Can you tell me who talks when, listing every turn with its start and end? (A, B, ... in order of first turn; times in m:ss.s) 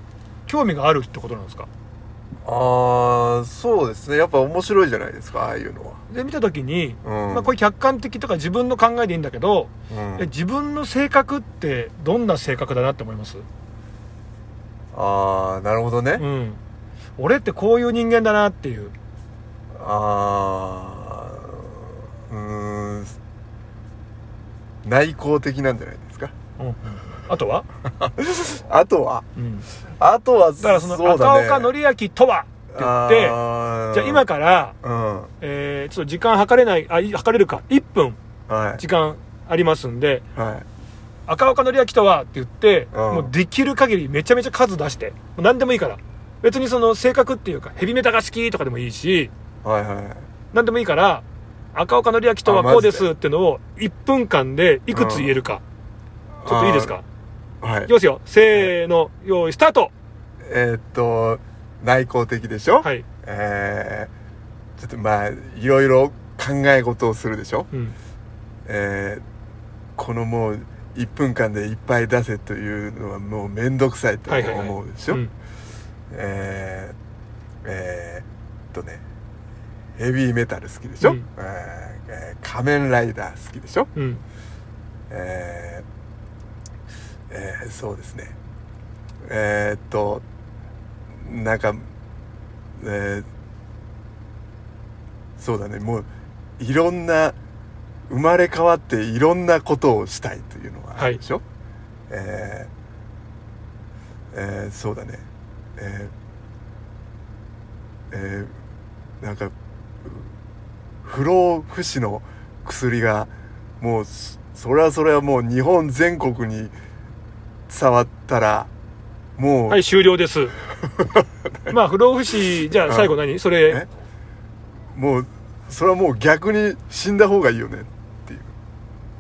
0:00.5-0:01.7 A
0:02.4-0:06.0 B
0:06.1-0:13.4 A
0:07.0-0:07.5 B
0:09.9-0:10.3 B
0:14.9-0:16.2 B
0:16.2-0:16.6 A
0:17.2-0:18.9 A
0:19.8-0:21.8 B
0:22.3-0:23.2 B
0:24.8-0:26.3 B
0:26.6-0:27.6 A
0:27.9-0:29.2 B
0:29.4-0:29.7 A
0:30.0-0:31.7 B
0:30.6-0:33.4 A
0:32.7-0:34.3 B
0:33.9-0:34.8 A
0:34.8-0:35.3 B
0:35.4-0:38.2 A
0:38.5-0:38.8 B
0:38.8-0:40.2 A
0:40.4-0:40.7 B
0:41.3-0:49.3 A
0:42.9-0:43.3 B
0:49.6-0:50.2 B
0:50.5-0:55.6 A
0:52.4-0:53.1 B
0:54.9-0:55.3 B
0:56.4-0:57.0 B
0:56.5-0:57.0 A
0:57.6-0:57.9 B
0:57.9-0:59.9 A
1:00.5-1:04.1 B
1:04.8-1:07.7 B
1:08.7-1:09.2 B
1:10.0-1:15.2 B
1:14.3-1:15.3 A
1:16.1-1:17.0 B
1:17.6-1:19.0 B
1:20.0-1:23.9 B
1:21.0-1:21.3 A
1:24.0-1:24.2 A
1:25.1-1:25.9 B
1:27.3-1:28.4 B
1:29.2-1:30.2 B
1:31.2-1:31.9 B
1:32.8-1:33.3 B
1:35.4-1:36.1 B
1:36.6-1:37.4 B
1:38.1-1:41.4 B
1:42.1-1:42.7 B
1:44.3-1:45.3 B
1:45.8-1:46.1 B
1:48.1-1:48.5 B
1:49.2-1:50.3 B
1:51.0-1:56.7 B
1:57.7-1:58.7 B
1:59.4-1:59.8 B
1:59.7-2:00.5 A
2:00.9-2:01.7 B
2:01.7-2:03.8 A
2:02.7-2:03.9 B
2:04.9-2:08.5 B